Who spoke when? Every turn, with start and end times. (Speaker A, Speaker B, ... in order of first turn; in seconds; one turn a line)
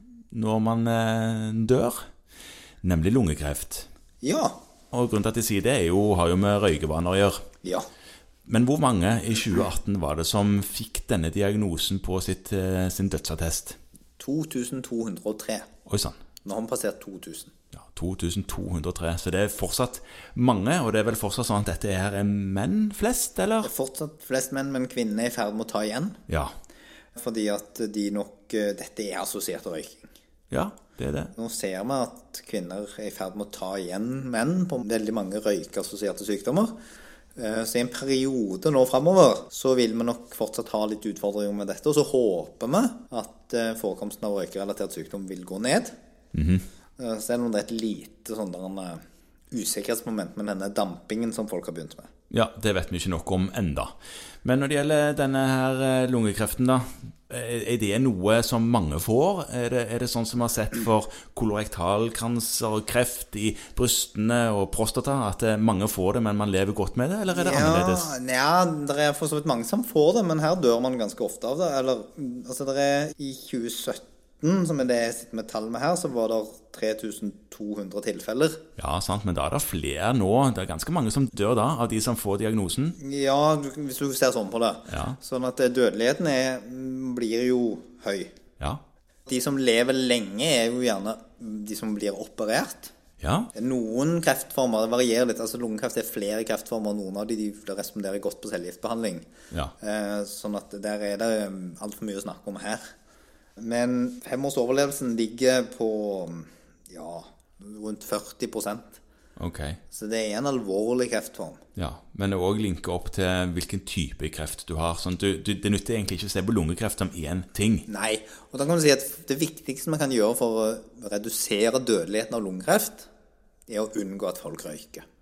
Speaker A: 0.3-2.0
Speaker A: 2.8-3.9
Speaker B: 4.2-4.6
Speaker A: 4.9-7.4
Speaker A: 8.5-13.8
Speaker B: 14.2-15.7
Speaker A: 15.9-16.2
Speaker B: 16.4-17.5
Speaker A: 17.8-23.7
Speaker B: 23.6-26.2
Speaker B: 27.1-30.1
Speaker A: 30.5-31.3
Speaker B: 31.4-36.8
Speaker B: 37.4-46.0
Speaker A: 46.3-46.6
Speaker B: 47.0-52.1
Speaker A: 52.3-53.9
Speaker A: 54.4-68.1
Speaker B: 67.3-78.6
Speaker A: 78.8-83.0
Speaker B: 83.0-88.3
Speaker A: 84.9-85.2
Speaker B: 89.3-92.9
Speaker A: 93.2-93.5
Speaker B: 93.5-99.3
Speaker B: 99.8-102.8
Speaker B: 103.6-109.0
Speaker A: 109.4-109.8
Speaker B: 109.9-111.6
Speaker A: 111.8-117.9
Speaker B: 117.9-123.1
Speaker B: 123.7-125.0